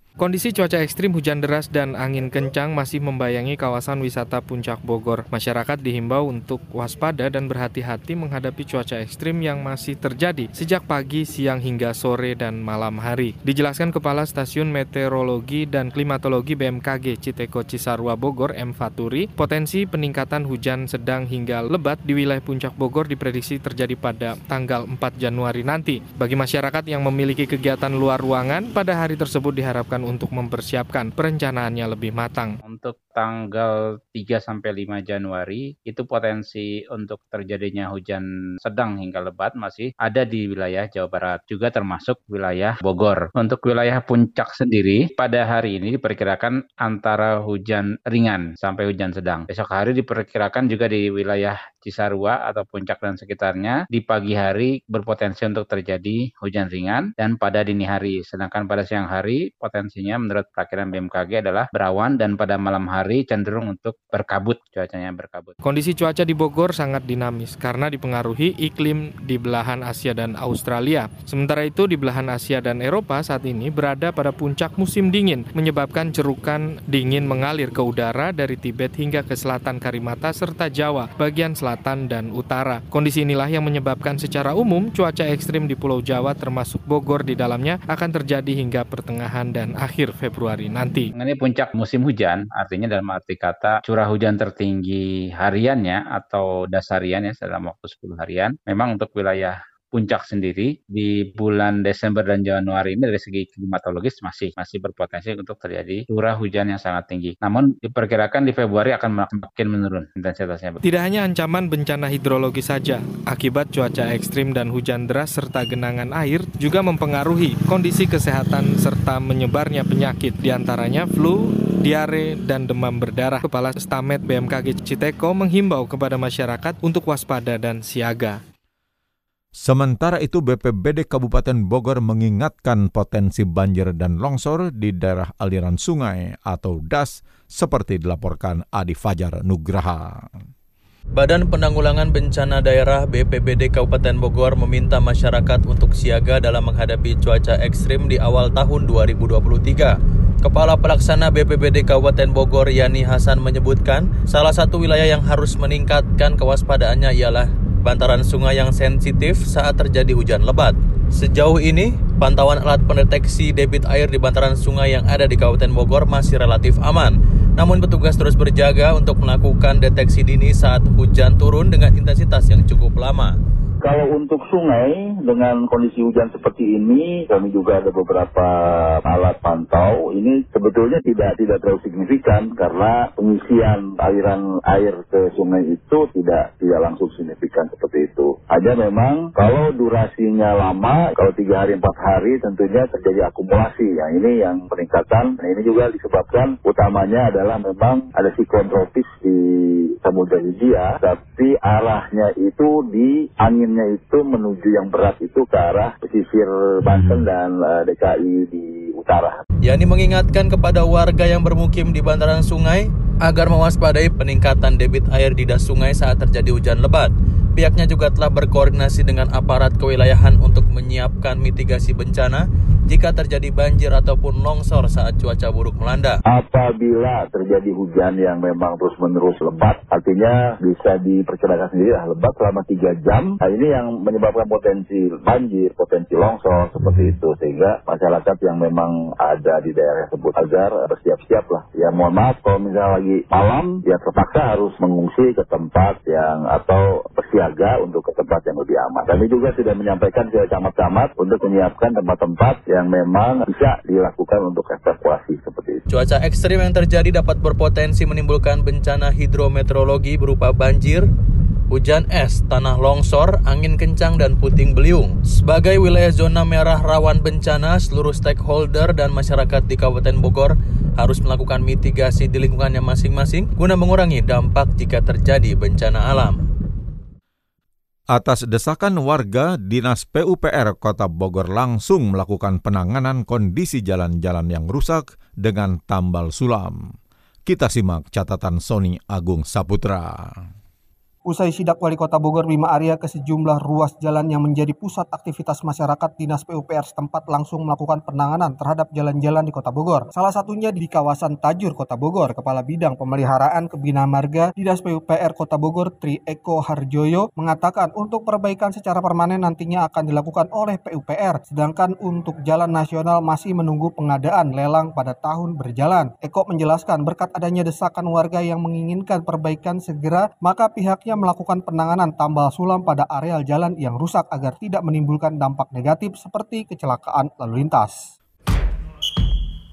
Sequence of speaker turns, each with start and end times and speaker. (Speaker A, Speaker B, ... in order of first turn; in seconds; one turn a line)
Speaker A: 0.2-32.5
Speaker B: 32.6-65.5
Speaker A: 65.6-91.1
Speaker B: 91.2-110.8
Speaker A: 110.8-128.4
Speaker C: 129.6-140.3
Speaker D: 141.1-173.3
Speaker E: 173.8-209.4
Speaker D: 209.6-226.2
Speaker E: 226.3-255.8
Speaker D: 255.9-261.1
Speaker D: 261.7-276.4
Speaker C: 278.1-286.8
Speaker C: 287.4-290.4
Speaker F: 291.3-328.1